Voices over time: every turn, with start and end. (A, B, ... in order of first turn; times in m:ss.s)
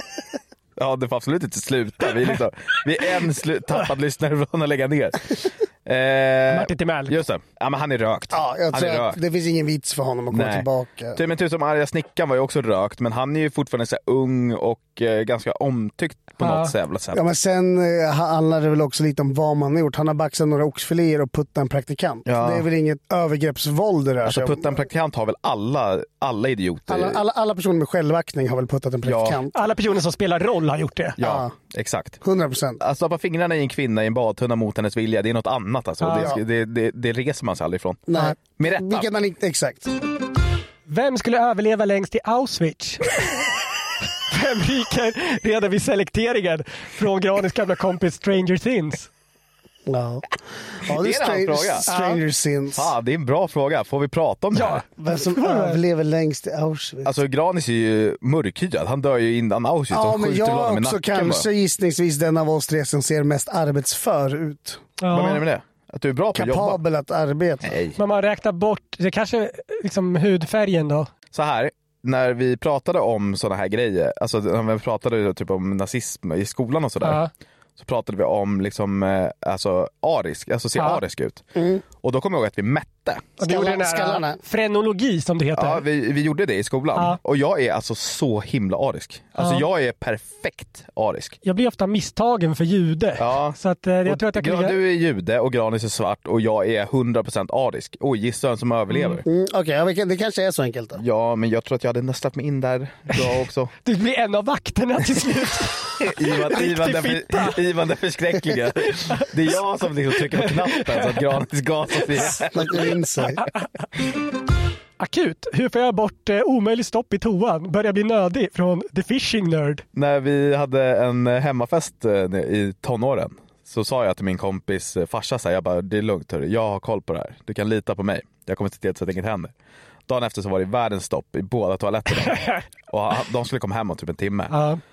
0:00.8-0:09.2 A
0:06.5-0:07.1 B
0:08.3-0:11.2 C
0:10.3-0:17.2 A
0:16.4-0:16.7 B
0:17.1-0:24.8 C
0:22.3-0:22.7 A
0:24.2-0:27.2 A
0:26.9-0:29.5 C
0:29.1-0:29.4 A
0:29.5-0:31.2 B
0:31.2-0:32.2 A
0:31.2-0:31.5 C
0:32.2-0:32.8 C
0:32.8-0:39.1 A
0:36.0-0:36.3 B
0:36.1-0:36.4 C
0:38.1-0:39.9 C
0:40.9-0:43.3 B
0:44.3-0:49.1 B
0:49.9-0:50.3 C
0:50.8-0:52.9 C
0:50.9-0:51.9 A
0:51.9-0:52.2 B
0:52.7-0:54.8 A
0:54.5-0:55.8 B
0:55.0-0:57.1 C
0:57.0-1:01.5 A
0:59.9-1:04.8 C
1:05.0-1:05.4 B
1:05.1-1:06.8 A
1:06.4-1:07.7 C
1:07.6-1:08.0 A
1:08.0-1:11.1 B
1:11.3-1:17.2 A
1:17.0-1:17.3 B
1:17.8-1:21.4 A
1:21.6-1:21.8 C
1:22.0-1:23.3 A
1:23.4-1:25.8 B
1:23.4-1:24.4 C
1:25.6-1:31.4 A
1:29.4-1:29.6 B
1:31.4-1:34.8 B
1:33.2-1:39.2 A
1:38.9-1:39.2 B
1:39.3-1:41.0 C
1:41.0-1:43.7 A
1:43.8-1:47.6 B
1:46.0-1:52.7 A
1:49.0-1:49.3 B
1:50.4-1:51.1 B
1:52.3-1:53.4 C
1:55.0-1:59.8 B
2:00.0-2:09.5 A
2:10.1-2:14.5 A
2:12.2-2:12.6 B
2:14.5-2:14.8 B